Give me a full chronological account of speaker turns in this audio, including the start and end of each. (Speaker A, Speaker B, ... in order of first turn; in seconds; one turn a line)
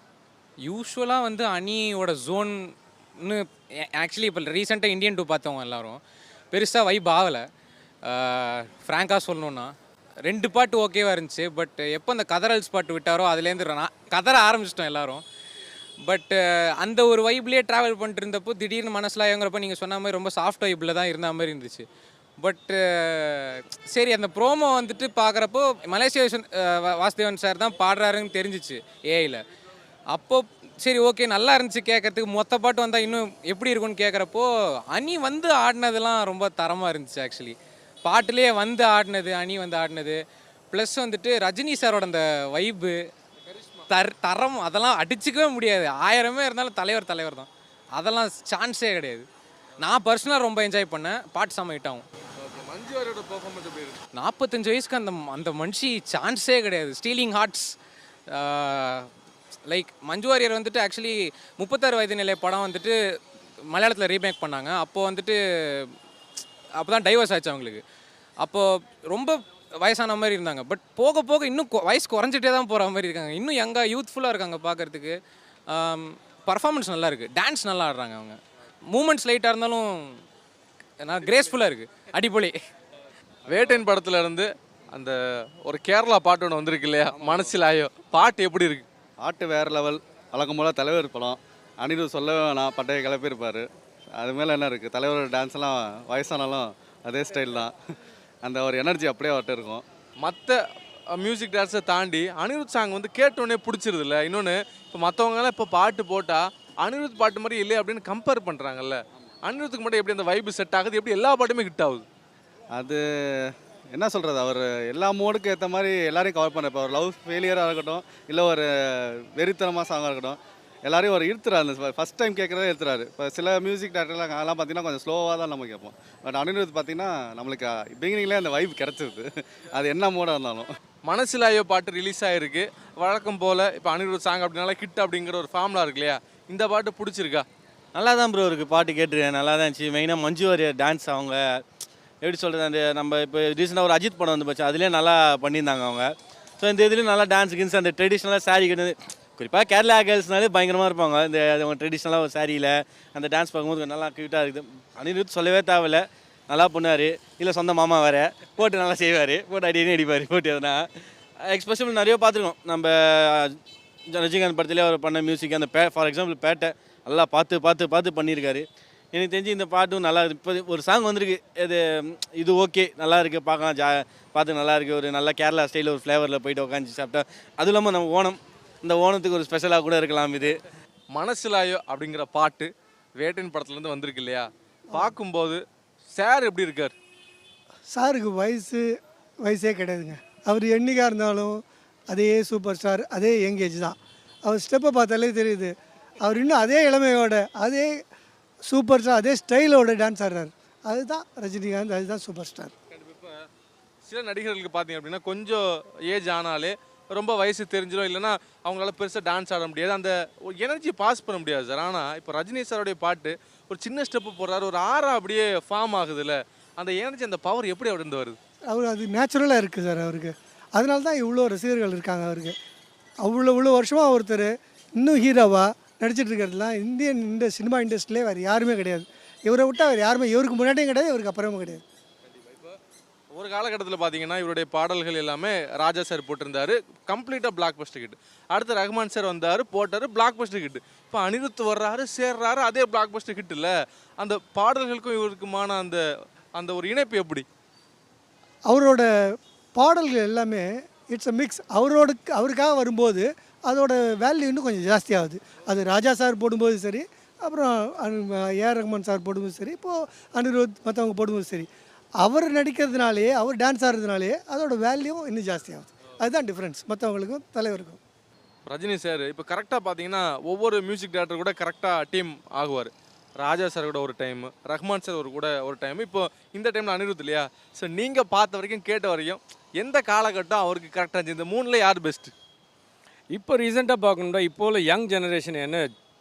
Speaker A: 0.7-2.6
Speaker A: 3.2-6.0
Speaker A: 6.5-7.4
Speaker A: 8.0-9.7
Speaker A: 10.3-15.2
Speaker A: 16.0-21.8
Speaker A: 22.4-29.4
Speaker A: 30.1-40.2
Speaker A: 40.7-43.0
Speaker A: 43.9-49.2
Speaker A: 49.8-52.0
Speaker B: 52.4-54.0
Speaker A: 54.1-57.7
Speaker A: 58.3-59.1
Speaker A: 59.7-62.9
Speaker A: 63.7-65.9
Speaker A: 66.8-67.8
Speaker A: 68.4-75.1
Speaker A: 75.7-78.4
Speaker A: 78.9-80.1
Speaker A: 81.0-82.5
Speaker B: 83.5-88.8
Speaker C: 89.2-93.7
Speaker C: 94.2-97.7
Speaker C: 98.4-99.8
Speaker B: 100.2-100.6
Speaker B: 101.1-112.0
Speaker C: 112.7-130.7
Speaker B: 131.1-137.4
Speaker D: 137.9-141.6
Speaker D: 142.2-160.9
Speaker D: 161.4-163.6
Speaker D: 164.1-180.6
Speaker B: 181.1-185.6
Speaker B: 186.1-186.9
Speaker E: 187.9-188.9
Speaker E: 189.4-198.0
Speaker E: 198.7-202.7
Speaker B: 202.9-203.4
Speaker B: 204.0-218.4
Speaker E: 218.7-222.6
Speaker E: 223.2-231.8
Speaker B: 232.3-232.7
Speaker B: 233.3-246.0
Speaker B: 246.6-247.4
Speaker E: 248.7-249.1
Speaker E: 249.7-261.7
Speaker E: 262.2-268.0
Speaker B: 268.7-282.3
Speaker F: 283.3-285.9